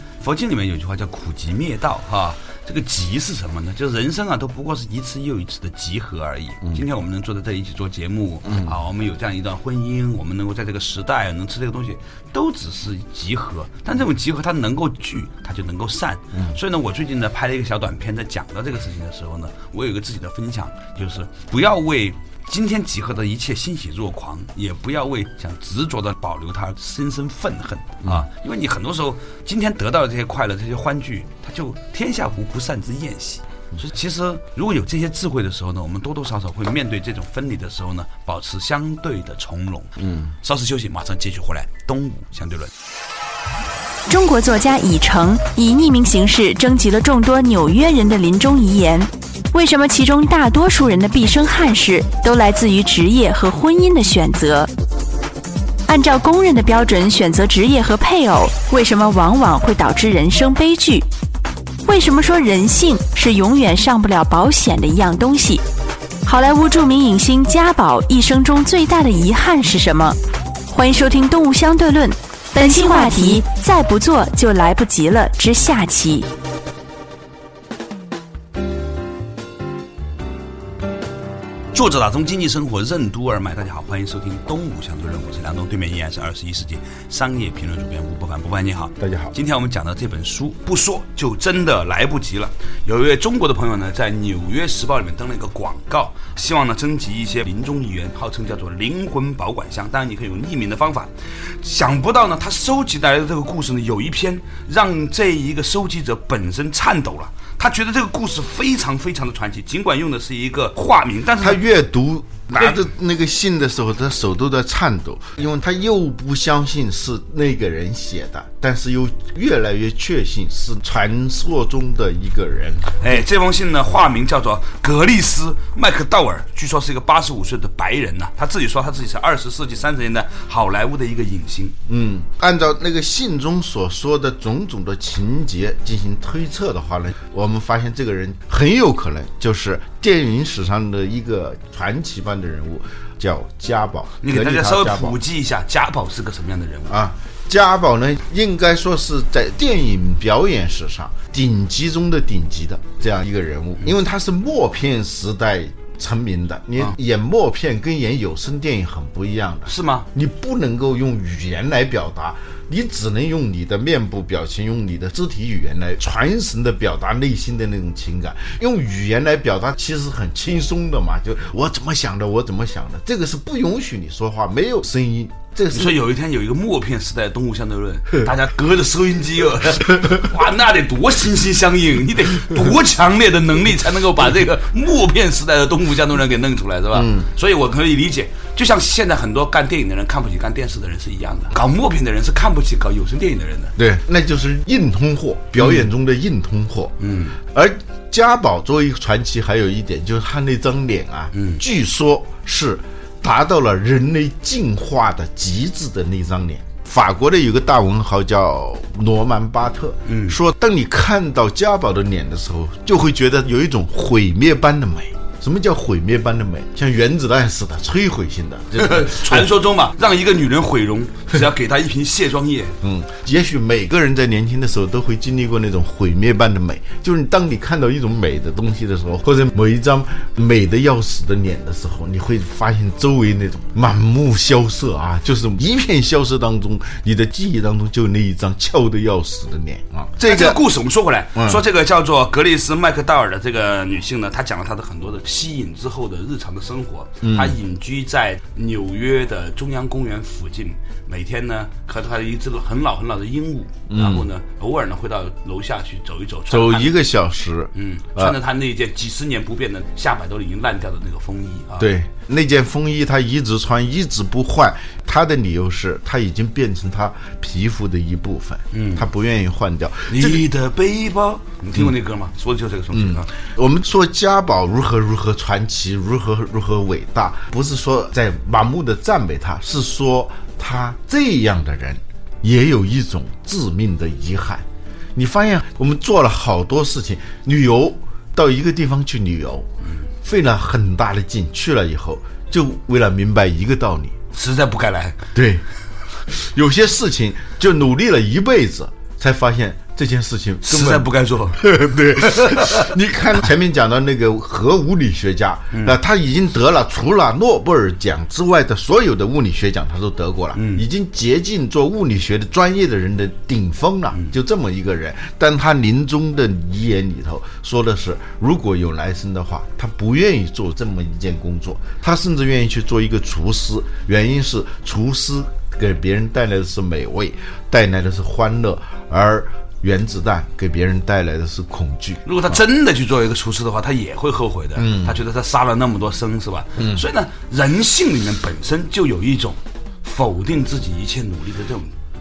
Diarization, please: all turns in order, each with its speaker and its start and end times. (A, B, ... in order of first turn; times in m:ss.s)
0:00.2-0:42.7 A
0:08.5-0:08.7 B
0:40.0-0:40.3 B
0:44.1-0:54.7 C
0:55.9-1:01.0 C
1:01.8-1:05.6 C
1:06.2-1:10.2 C
1:10.7-1:16.3 C
1:21.7-1:51.6 A
1:29.0-1:29.3 B
1:51.4-2:03.0 B
2:03.0-2:11.8 A
2:11.9-2:25.2 B
2:24.2-2:27.0 A
2:26.9-2:56.0 B
2:39.7-2:40.1 A
2:55.7-3:13.7 A
3:06.9-3:07.3 B
3:13.8-3:39.5 B
3:17.0-3:17.4 A
3:21.3-3:21.6 A
3:30.0-3:30.4 A
3:38.8-3:42.7 A
3:42.8-4:00.6 B
4:00.2-4:16.9 A
4:01.3-4:01.6 B
4:07.2-4:07.6 B
4:13.9-4:14.2 B
4:16.5-4:18.4 B
4:17.7-4:21.9 A
4:21.8-4:30.4 B
4:28.7-4:29.0 A
4:30.1-4:33.3 A
4:32.9-4:49.7 B
4:50.2-4:54.2 B
4:54.3-4:55.2 A
4:55.3-4:55.6 B
4:56.3-5:32.6 B
5:00.6-5:02.9 A
5:10.5-5:10.8 A
5:32.2-5:41.9 A
5:34.8-5:35.2 B
5:36.8-5:37.0 B